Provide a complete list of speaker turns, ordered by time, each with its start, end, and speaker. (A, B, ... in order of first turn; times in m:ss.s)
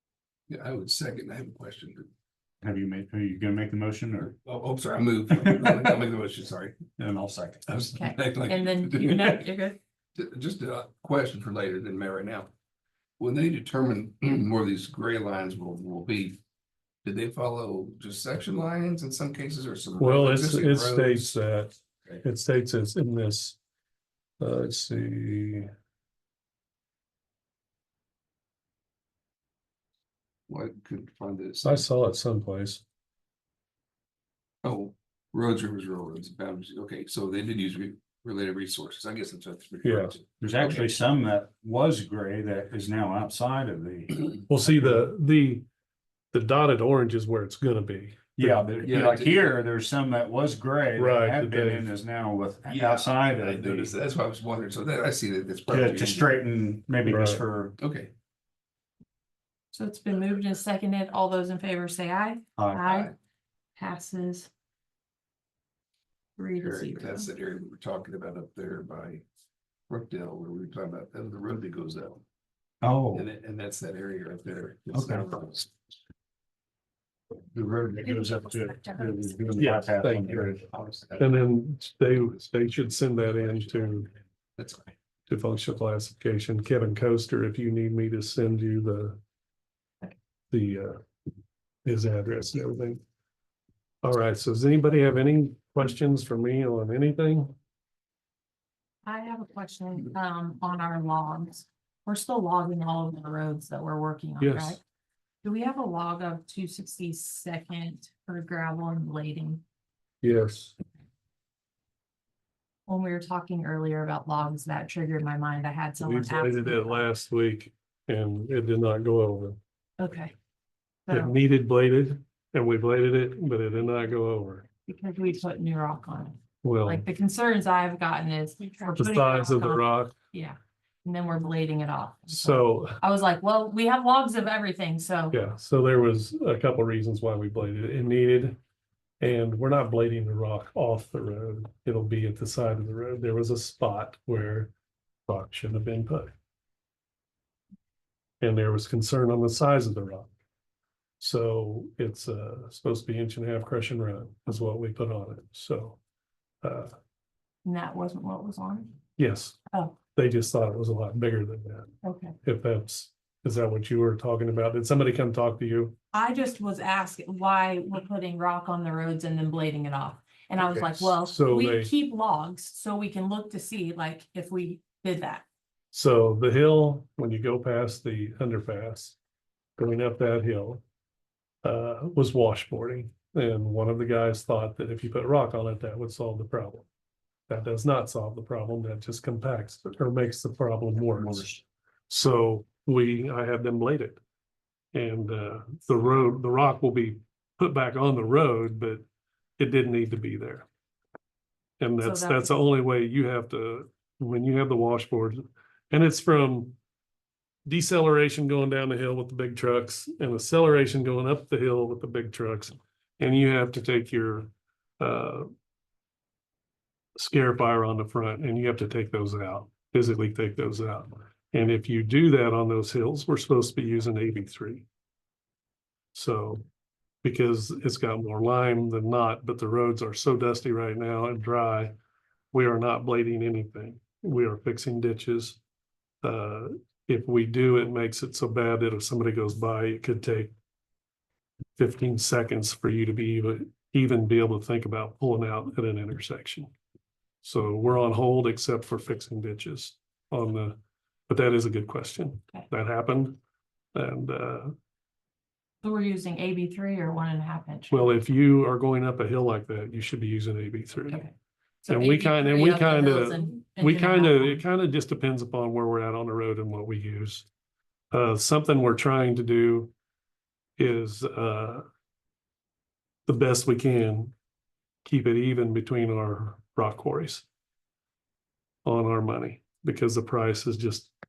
0:00.5-0:02.1 A
0:02.6-0:04.3 B
0:04.4-0:06.8 A
0:07.0-0:07.8 B
0:07.7-0:09.4 A
0:07.8-0:09.8 C
0:10.2-0:12.5 A
0:13.2-0:16.4 A
0:17.0-0:21.4 A
0:20.0-0:23.6 D
0:24.4-0:25.7 D
0:30.5-0:31.8 A
0:31.6-0:32.8 D
0:34.6-0:41.0 A
0:39.8-0:40.2 D
0:40.4-0:44.7 B
0:44.5-0:45.6 D
0:46.3-0:48.7 D
0:48.4-0:53.9 B
0:48.8-0:49.6 A
0:51.0-0:51.9 D
0:52.6-0:56.4 A
0:55.7-0:57.8 B
0:57.0-0:57.4 D
0:57.8-0:58.1 A
0:59.7-1:03.1 C
1:02.6-1:02.8 B
1:03.8-1:04.5 C
1:06.4-1:07.3 C
1:06.6-1:09.2 A
1:09.9-1:12.2 A
1:12.8-1:13.3 B
1:13.1-1:15.7 A
1:14.9-1:15.2 B
1:17.5-1:20.6 B
1:18.0-1:19.5 C
1:19.6-1:20.6 D
1:20.6-1:21.4 A
1:21.2-1:24.1 D
1:24.6-1:24.9 A
1:25.3-1:29.2 D
1:30.5-1:31.0 D
1:31.8-1:33.0 D
1:34.0-1:37.5 D
1:39.0-1:44.8 C
1:44.4-1:44.8 D
1:45.4-1:49.6 C
1:50.2-1:50.7 D
1:52.9-1:57.0 C
1:56.0-1:59.6 D
2:00.0-2:00.3 C
2:01.0-2:01.3 C
2:01.1-2:04.7 D
2:04.9-2:15.4 C
2:06.6-2:07.0 D
2:08.9-2:10.1 D
2:12.3-2:13.0 D
2:15.3-2:18.6 D
2:19.2-2:24.7 D
2:25.3-2:26.3 D
2:28.4-2:30.3 D
2:31.2-2:36.0 D
2:36.6-2:36.9 D
2:37.6-2:39.0 C
2:39.2-2:41.9 D
2:42.0-2:42.4 C
2:42.4-2:46.0 D
2:46.1-2:55.5 C
2:50.6-2:51.9 D
2:55.9-2:59.2 D
2:59.8-3:00.8 D
3:01.6-3:06.8 D
3:07.5-3:11.6 D
3:12.1-3:14.2 D
3:14.9-3:19.0 D
3:19.6-3:20.7 D
3:21.8-3:26.8 D
3:22.0-3:22.6 C
3:27.7-3:35.5 D
3:37.2-3:44.8 D
3:46.1-3:46.6 D
3:47.2-3:51.9 D
3:52.5-3:55.6 D
3:56.2-4:00.5 D
4:01.8-4:06.7 D
4:07.4-4:10.8 D
4:11.3-4:13.4 D
4:13.9-4:14.7 D
4:15.8-4:18.2 C
4:17.9-4:21.2 D
4:21.8-4:24.6 C
4:21.9-4:27.4 D
4:28.1-4:29.9 D
4:30.8-4:31.8 D
4:33.2-4:34.3 D
4:35.0-4:37.4 D
4:38.8-4:41.1 D